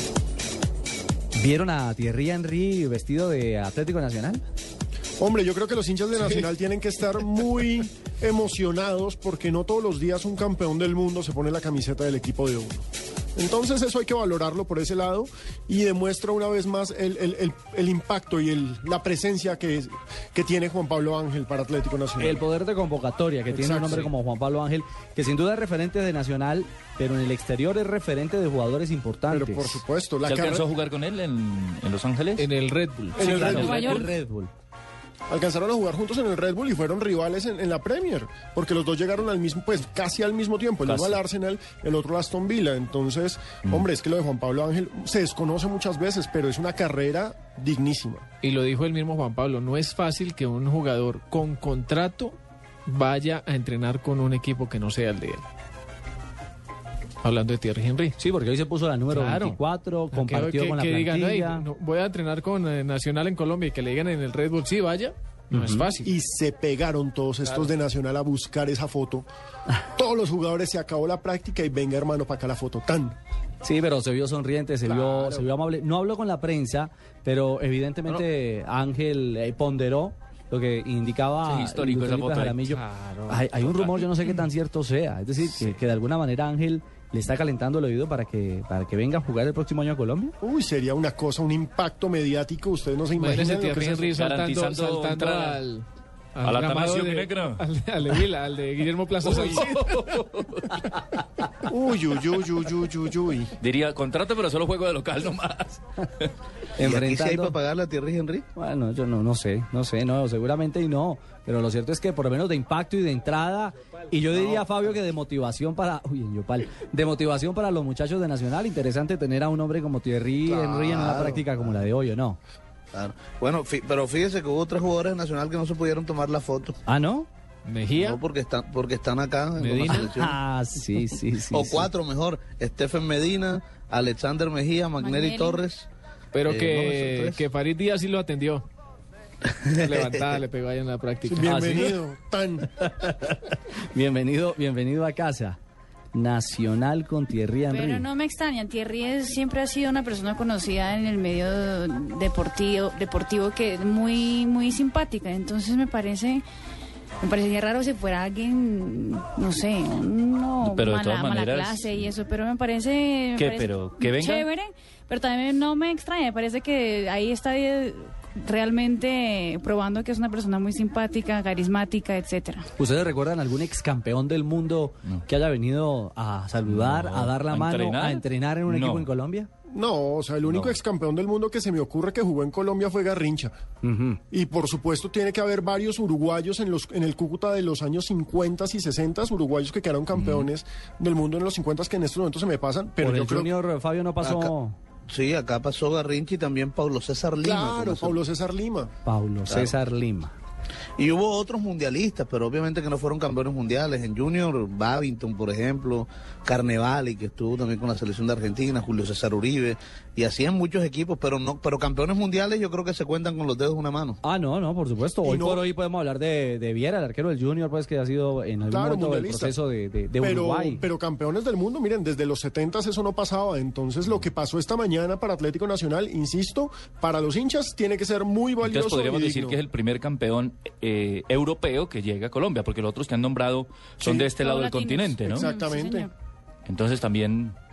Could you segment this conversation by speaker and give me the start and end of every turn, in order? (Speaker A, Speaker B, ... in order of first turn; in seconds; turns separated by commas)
Speaker A: 1.4-4.4, Speaker B: 5.2-12.8, Speaker B: 13.4-22.4, Speaker A: 22.2-29.8, Speaker B: 23.5-24.1, Speaker B: 29.3-30.7, Speaker C: 30.3-32.5, Speaker D: 32.4-33.8, Speaker B: 33.2-33.8, Speaker A: 33.2-34.5, Speaker C: 33.4-34.1, Speaker E: 33.6-34.0, Speaker B: 35.3-48.2, Speaker C: 40.9-41.2, Speaker D: 48.4-55.4, Speaker D: 57.2-58.2, Speaker A: 58.2-61.7, Speaker D: 59.1-59.6, Speaker D: 60.1-66.1, Speaker A: 65.5-65.9, Speaker B: 66.0-69.3, Speaker B: 69.9-73.2, Speaker A: 73.6-90.3, Speaker B: 74.9-75.5, Speaker C: 81.5-82.7, Speaker D: 82.7-83.4, Speaker C: 83.6-84.1, Speaker B: 90.4-94.1, Speaker D: 93.2-100.0, Speaker C: 94.1-95.6, Speaker C: 96.4-97.6, Speaker C: 99.3-100.8, Speaker B: 101.7-103.5, Speaker C: 103.6-106.3, Speaker A: 106.8-107.6, Speaker F: 106.8-108.5, Speaker A: 108.6-122.4, Speaker F: 114.3-114.7, Speaker B: 120.5-121.3, Speaker F: 120.6-121.8, Speaker F: 122.9-126.8, Speaker A: 126.9-127.3, Speaker D: 127.7-128.2, Speaker F: 128.0-130.4, Speaker D: 129.6-130.0, Speaker A: 129.8-131.9, Speaker F: 131.5-135.9, Speaker E: 135.0-135.6, Speaker D: 136.3-138.7, Speaker F: 136.4-137.4, Speaker D: 139.7-141.9, Speaker F: 139.7-140.3, Speaker B: 141.3-142.7, Speaker A: 141.5-141.9, Speaker A: 142.8-145.6, Speaker A: 146.1-148.1, Speaker E: 147.7-156.4, Speaker E: 157.2-172.7, Speaker C: 160.6-162.1, Speaker C: 163.4-164.5, Speaker A: 172.8-179.5, Speaker C: 176.7-179.1, Speaker B: 179.7-183.5, Speaker C: 180.5-180.7, Speaker A: 183.8-184.2, Speaker B: 184.3-193.5, Speaker C: 190.2-190.5, Speaker A: 193.0-194.8, Speaker F: 194.2-194.5, Speaker F: 195.1-198.2, Speaker B: 197.4-198.9, Speaker A: 199.1-200.3, Speaker F: 199.5-199.8, Speaker F: 201.0-214.2, Speaker A: 214.2-220.8, Speaker B: 215.2-215.7, Speaker B: 218.7-219.6, Speaker B: 220.2-229.6, Speaker C: 228.6-235.5, Speaker B: 234.0-234.3, Speaker E: 234.4-236.1, Speaker B: 235.3-236.1, Speaker C: 236.7-237.6